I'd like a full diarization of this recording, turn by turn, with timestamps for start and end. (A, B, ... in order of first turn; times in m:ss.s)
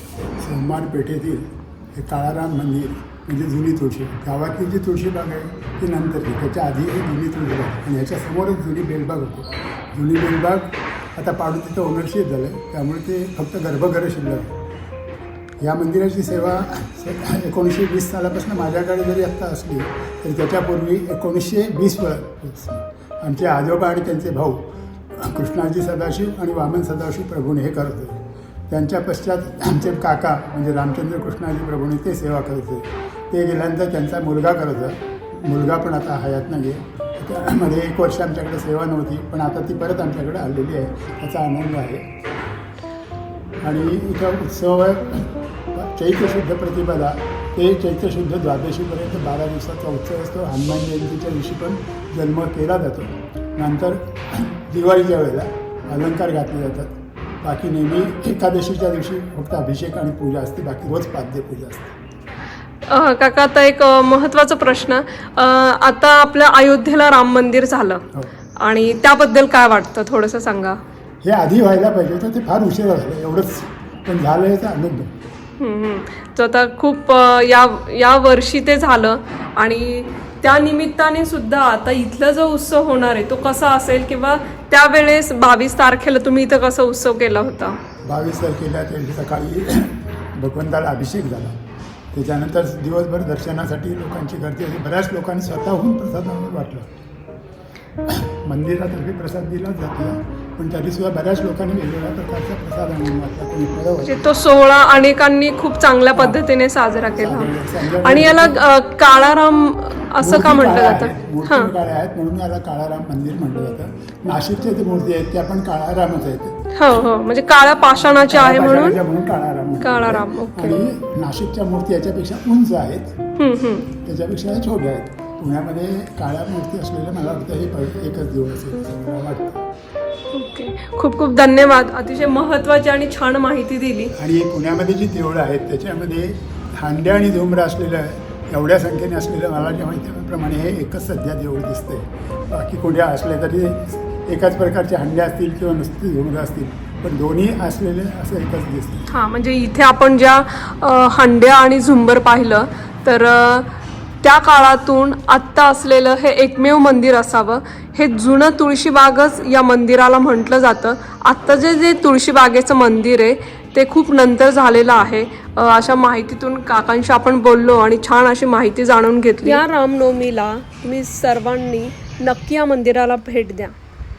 0:00.4-0:14.6 A
0:15.6-0:42.1 A
0:43.6-1:02.0 A
1:02.8-1:08.0 B
1:08.6-1:10.8 B
1:11.2-1:15.1 A
1:15.6-1:27.8 B
1:28.0-1:31.6 A
1:32.1-1:36.9 A
1:38.0-1:44.2 A
1:44.0-1:51.7 B
1:47.2-1:48.6 A
1:50.2-1:56.6 A
1:56.7-1:59.0 B
1:58.3-2:03.2 A
1:59.8-2:00.8 B
2:03.4-2:03.9 B
2:03.9-2:09.6 A
2:10.3-2:14.2 B
2:14.2-2:29.1 A
2:29.1-2:33.7 B
2:34.2-2:53.7 B